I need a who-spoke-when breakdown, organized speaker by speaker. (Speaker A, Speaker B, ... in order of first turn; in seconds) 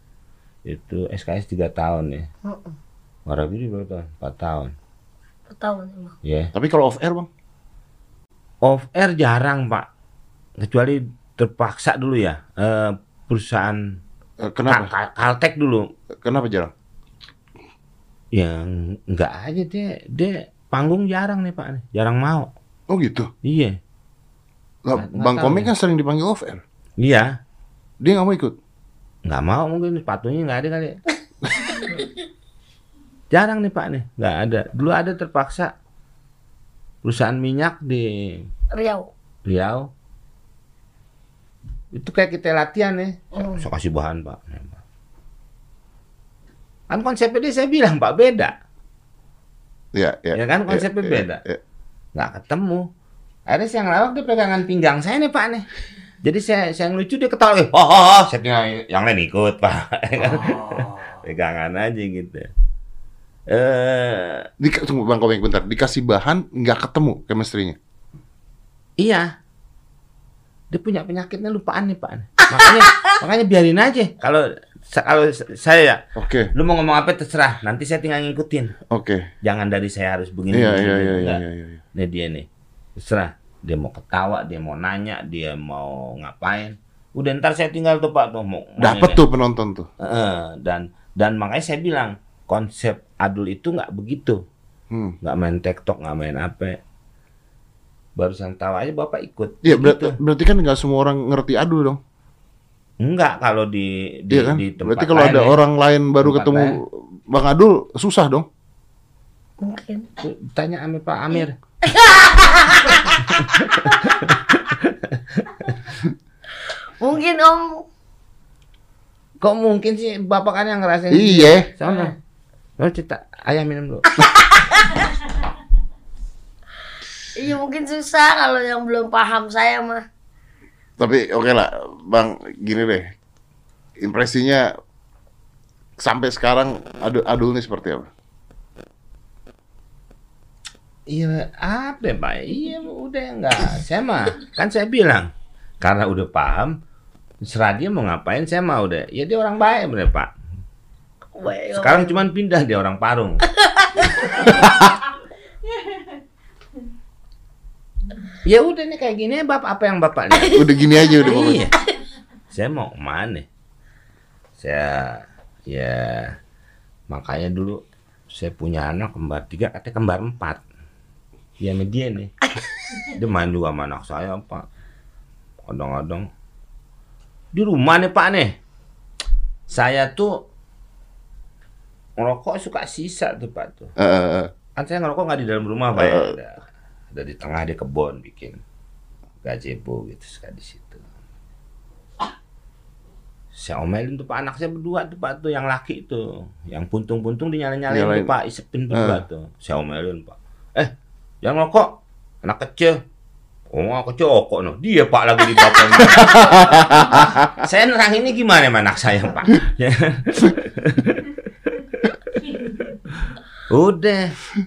Speaker A: 0.7-2.3, 3.3-4.7, 6.2-6.5, 8.6-9.9, 10.6-14.0, 14.7-15.9, 18.3-22.5, 23.4-23.8, 24.9-25.7, 27.0-27.4, 29.3-31.0, 33.3-35.7, 37.0-38.5, 39.5-39.9, 41.9-44.8, 46.9-48.5, 50.3-51.4, 52.1-52.9, 53.5-55.7, 56.2-62.5, 63.5-64.5, 69.0-69.3, 70.7-76.0, 76.5-78.8, 79.4-81.4, 81.9-89.2, 90.0-94.4, 95.2-96.8, 98.2-100.2, 103.0-105.5, 106.2-106.7, 110.2-111.6, 113.2-116.0, 119.4-122.1, 122.8-124.2, 141.1-146.8, 147.4-150.3, 151.8-153.4, 158.4-160.6, 161.2-161.8, 162.5-163.5, 164.6-166.4, 167.1-170.6, 171.6-172.3, 173.1-174.7, 175.7-176.3, 177.5-178.6, 179.7-180.4, 182.2-183.9, 184.8-186.6, 187.1-188.6, 189.4-191.0, 193.6-203.0, 203.7-211.4, 211.9-214.4
Speaker B: 2.5-2.8, 5.5-6.1, 38.7-39.1, 43.4-43.6, 109.6-110.1, 111.8-113.4, 117.0-117.8, 121.8-122.1, 124.5-125.1, 127.3-130.0, 151.3-152.2, 153.5-154.6, 160.4-161.9
Speaker C: 6.5-7.3, 14.4-14.9, 16.2-16.7, 22.9-23.3, 24.9-26.6, 28.0-28.6, 49.9-51.6, 60.2-61.1, 64.6-67.8, 76.2-76.5, 78.9-79.3, 80.5-81.8, 88.8-89.9, 94.9-95.2, 99.6-102.0, 104.3-108.5, 121.1-121.7, 131.0-133.1, 134.0-134.7, 136.0-138.1, 154.5-154.9, 160.5-161.7, 184.0-184.5, 185.9-186.3, 197.9-198.3, 198.9-199.2, 206.0-207.5